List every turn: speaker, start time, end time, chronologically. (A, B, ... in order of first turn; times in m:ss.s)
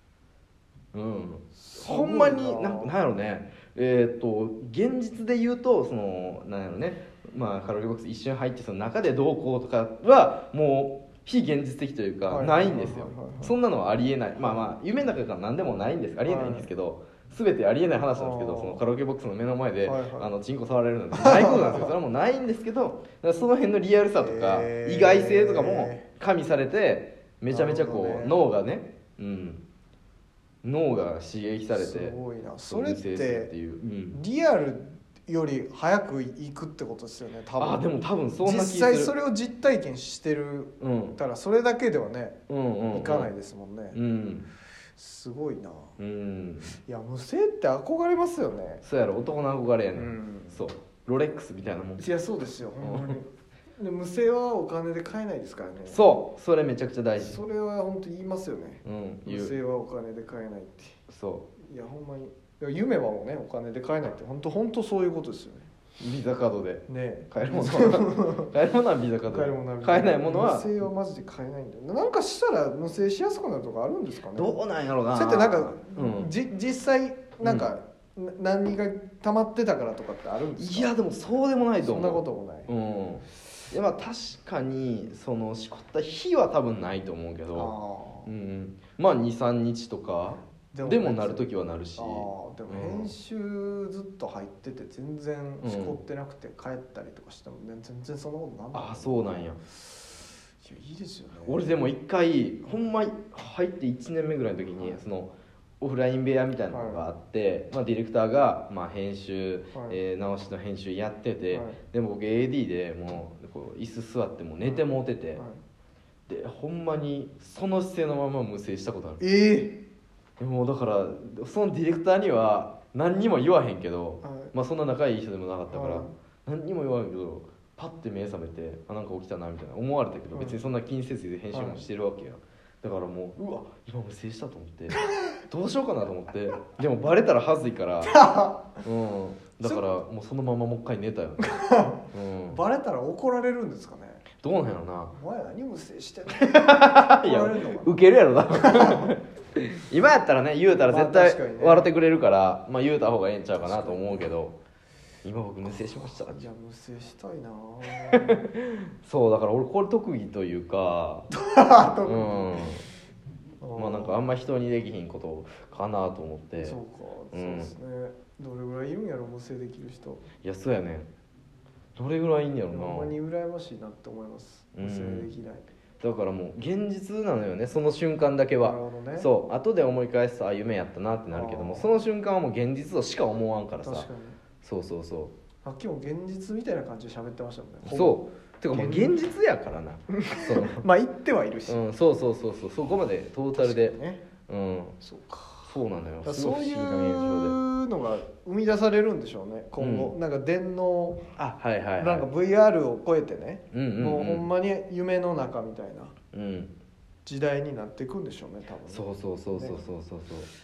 0:00.9-0:29.6 A
0:01.6-0:02.9 B
0:12.3-0:13.6 B
0:14.4-0:14.8 B
0:16.2-0:16.7 B
0:18.1-0:18.8 B
0:19.8-0:20.3 B
0:21.1-0:21.9 B
0:24.2-0:26.0 B
0:27.5-0:28.4 B
0:30.6-0:32.1 A
0:31.7-0:33.5 B
0:32.7-0:34.2 A
0:34.1-0:42.4 B
0:37.6-0:39.1 A
0:40.8-0:41.2 A
0:42.5-0:43.3 A
0:42.9-0:44.0 B
0:43.9-0:44.5 A
0:45.0-0:45.9 B
0:46.0-0:46.8 A
0:46.9-0:48.8 B
0:48.8-0:52.1 A
0:49.9-0:50.6 B
0:52.0-0:56.0 B
0:52.8-0:53.2 A
0:55.9-0:57.4 A
0:57.2-1:01.0 B
0:58.8-0:59.5 A
1:01.1-1:01.5 A
1:01.6-1:05.7 B
1:06.0-1:10.8 A
1:06.9-1:08.5 B
1:09.3-1:14.6 B
1:14.3-1:16.3 A
1:15.1-1:20.9 B
1:17.4-1:17.7 A
1:20.6-1:27.7 A
1:21.8-1:22.7 B
1:27.5-1:28.3 B
1:28.2-1:33.1 A
1:30.7-1:39.8 B
1:35.6-1:36.0 A
1:38.7-1:39.6 A
1:40.6-1:41.7 B
1:41.4-1:55.4 A
1:44.7-1:45.0 B
1:46.7-1:47.0 B
1:49.7-1:50.0 B
1:51.5-1:51.8 B
1:54.6-1:55.6 B
1:56.3-1:59.2 A
1:59.2-1:59.8 B
2:00.4-2:18.2 A
2:04.2-2:04.5 B
2:05.7-2:06.1 B
2:10.3-2:10.6 B
2:11.5-2:11.8 B
2:14.9-2:15.4 B
2:18.0-2:18.8 B
2:18.8-2:22.6 A
2:21.4-2:24.2 B
2:24.4-2:25.1 A
2:25.1-2:29.1 B
2:26.4-2:34.6 A
2:30.7-2:31.9 B
2:33.6-2:34.4 B
2:35.2-2:36.4 A
2:35.7-2:38.4 B
2:37.9-2:41.3 A
2:41.3-2:42.6 B
2:42.0-2:42.8 A
2:43.6-2:44.2 B
2:43.8-2:46.8 A
2:46.6-2:50.2 B
2:47.3-2:47.7 A
2:50.4-2:51.1 A
2:52.0-2:53.1 A
2:52.7-2:55.7 B
2:54.8-2:55.3 A
2:56.0-3:04.1 A
2:58.6-2:59.3 B
3:01.3-3:01.9 B
3:03.8-3:04.4 B
3:04.6-3:05.4 A
3:05.6-3:09.2 B
3:07.8-3:10.8 A
3:10.1-3:11.8 B
3:11.7-3:15.0 A
3:13.5-3:14.2 B
3:15.0-3:26.1 B
3:15.7-3:17.6 A
3:19.8-3:20.1 A
3:21.6-3:22.2 A
3:23.7-3:24.5 A
3:26.3-3:26.7 A
3:27.2-3:29.8 B
3:28.9-3:30.5 A